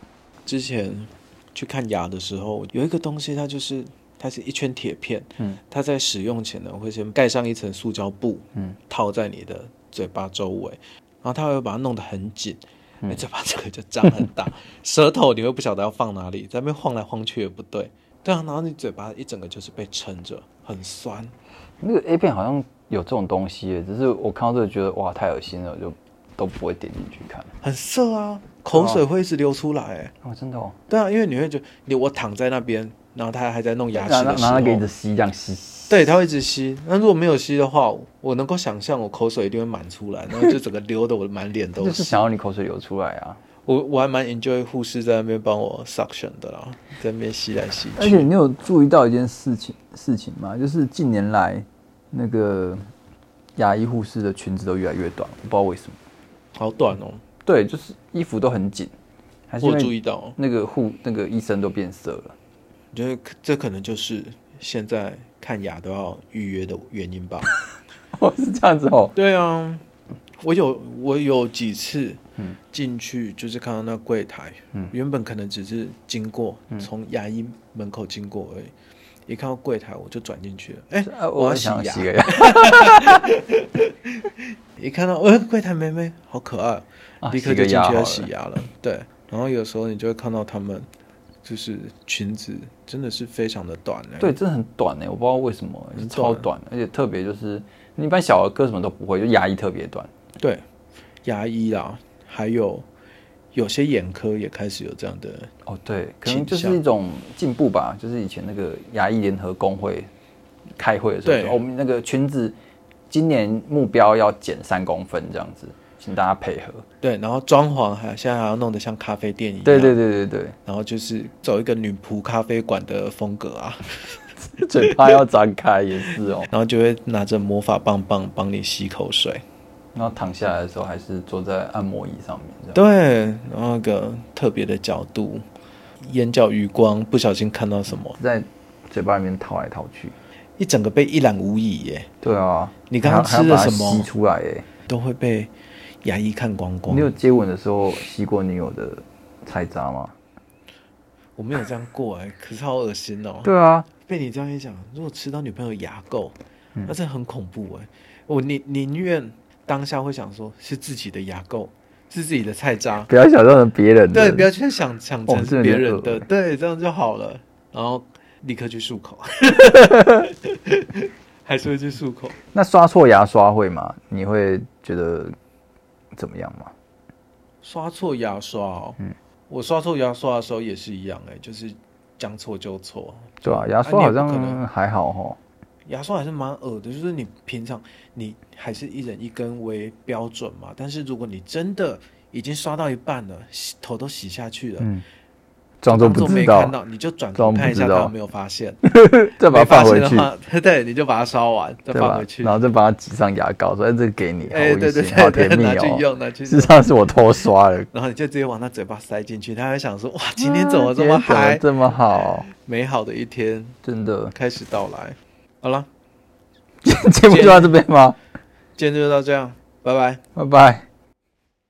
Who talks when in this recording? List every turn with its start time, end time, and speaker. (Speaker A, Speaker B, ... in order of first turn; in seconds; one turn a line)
Speaker A: 0.5-21.3
Speaker B: 21.8-27.5
Speaker A: 27.6-30.1
Speaker B: 28.7-29.0
Speaker B: 30.2-30.8
Speaker A: 30.9-34.8
Speaker B: 33.9-36.0
Speaker A: 35.9-42.2
Speaker B: 41.8-43.4
Speaker A: 43.7-48.3
Speaker B: 48.0-52.8
Speaker B: 53.5-56.0
Speaker A: 56.5-57.2
Speaker B: 57.4-58.9
Speaker B: 59.5-62.3
Speaker A: 59.6-60.4
Speaker A: 62.9-67.5
Speaker B: 68.1-69.1
Speaker A: 69.1-69.8
Speaker A: 70.4-78.7
Speaker A: 79.3-90.9
Speaker B: 81.0-83.3
Speaker B: 87.2-88.3
Speaker A: 91.4-94.3
Speaker B: 94.2-100.1
Speaker A: 96.0-96.5
Speaker A: 101.2-102.9
Speaker A: 103.5-105.5
Speaker B: 105.7-110.1
Speaker A: 106.2-106.8
Speaker B: 110.8-112.5
Speaker A: 111.2-111.6
Speaker B: 113.1-116.8
Speaker A: 117.0-120.0
Speaker B: 119.6-120.5
Speaker A: 120.6-125.2
Speaker B: 124.5-126.5
Speaker A: 126.5-129.4
Speaker B: 129.9-132.8
Speaker A: 132.7-135.4
Speaker A: 136.0-138.2
Speaker B: 138.2-140.1
Speaker A: 140.6-142.1
Speaker B: 142.2-144.7
Speaker A: 142.9-144.1
Speaker A: 144.9-145.5
Speaker A: 146.0-147.1
Speaker B: 146.9-150.1
Speaker A: 151.4-163.1
Speaker B: 153.4-153.9
Speaker B: 163.1-164.5
Speaker A: 164.1-172.4
Speaker B: 165.3-166.2
Speaker B: 169.7-170.3
Speaker B: 172.5-175.3
Speaker B: 176.1-176.7
Speaker A: 177.6-184.6
Speaker B: 183.4-185.4
Speaker A: 185.8-194.9
Speaker B: 195.8-196.8
Speaker A: 195.8-198.8
Speaker B: 197.3-198.1
Speaker B: 198.8-200.3
Speaker A: 199.5-202.6
Speaker B: 201.9-207.9
Speaker A: 204.5-207.1
Speaker A: 207.9-211.7
Speaker B: 210.4-212.5
Speaker A: 212.5-213.8
Speaker B: 213.8-214.3
Speaker A: 214.3-215.9
Speaker B: 216.8-218.2
Speaker A: 217.3-217.8
Speaker A: 218.8-220.2
Speaker B: 220.3-220.9